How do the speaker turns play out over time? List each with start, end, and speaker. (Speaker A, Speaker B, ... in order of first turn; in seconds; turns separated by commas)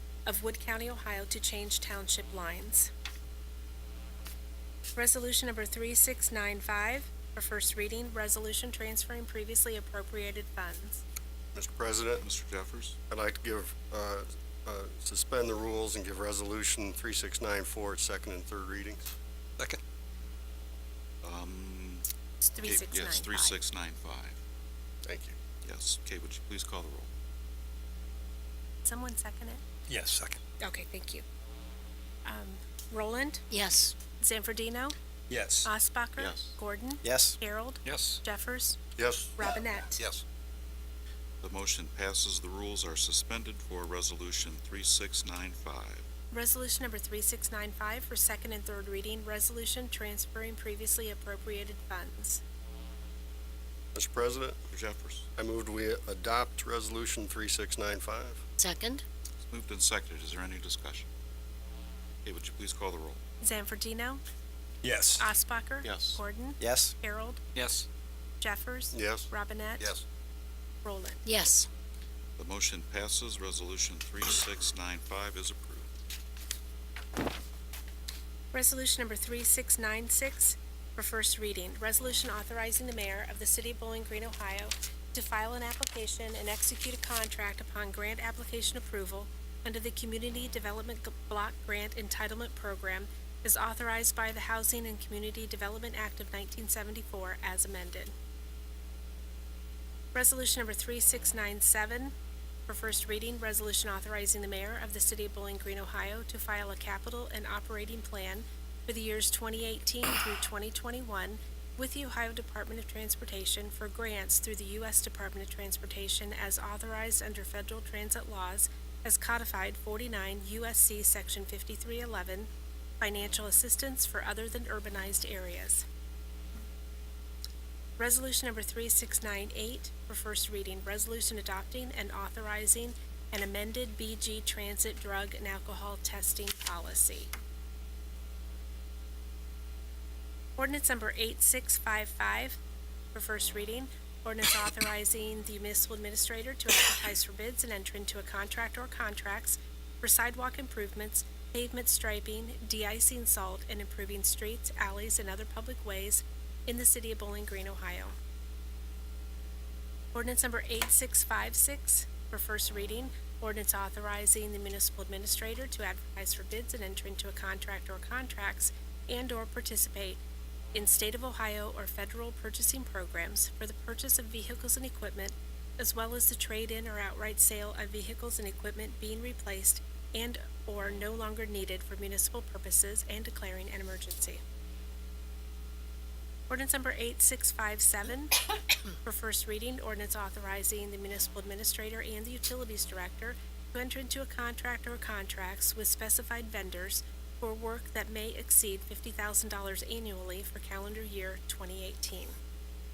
Speaker A: 0.2-2.9, Speaker A: 4.9-11.0, Speaker B: 11.5-12.2, Speaker C: 12.2-13.0, Speaker B: 13.1-19.1, Speaker C: 21.2-22.0, Speaker A: 22.4-23.6, Speaker C: 22.6-24.4, Speaker B: 25.0-25.4, Speaker C: 25.6-27.1, Speaker A: 28.8-29.6, Speaker D: 29.9-30.4, Speaker A: 30.6-31.2, Speaker A: 32.2-33.5, Speaker E: 33.5-33.9, Speaker A: 34.1-34.9, Speaker D: 35.3-35.7, Speaker A: 35.6-38.8, Speaker C: 36.2-36.5, Speaker E: 37.0-37.4, Speaker D: 37.8-38.2, Speaker B: 39.0-39.4, Speaker A: 39.4-40.0, Speaker C: 41.4-46.0, Speaker A: 46.3-52.4, Speaker B: 53.9-54.6, Speaker C: 54.7-55.2, Speaker B: 55.4-58.4, Speaker E: 58.6-59.0, Speaker C: 59.4-61.0, Speaker C: 62.2-63.2, Speaker A: 63.4-64.2, Speaker D: 64.8-65.3, Speaker A: 65.2-67.4, Speaker C: 65.8-66.2, Speaker E: 66.6-66.9, Speaker D: 67.5-67.8, Speaker A: 68.4-69.9, Speaker B: 68.9-70.0, Speaker A: 70.8-71.2, Speaker E: 71.2-71.7, Speaker C: 72.4-75.9, Speaker A: 78.5-98.1, Speaker A: 100.1-102.1, Speaker A: 102.7-122.5, Speaker A: 123.0-125.8, Speaker A: 128.0-137.3, Speaker A: 140.6-142.6, Speaker A: 143.1-158.2, Speaker A: 160.1-170.2, Speaker A: 170.7-184.4, Speaker A: 186.5-188.4, Speaker A: 189.0-202.3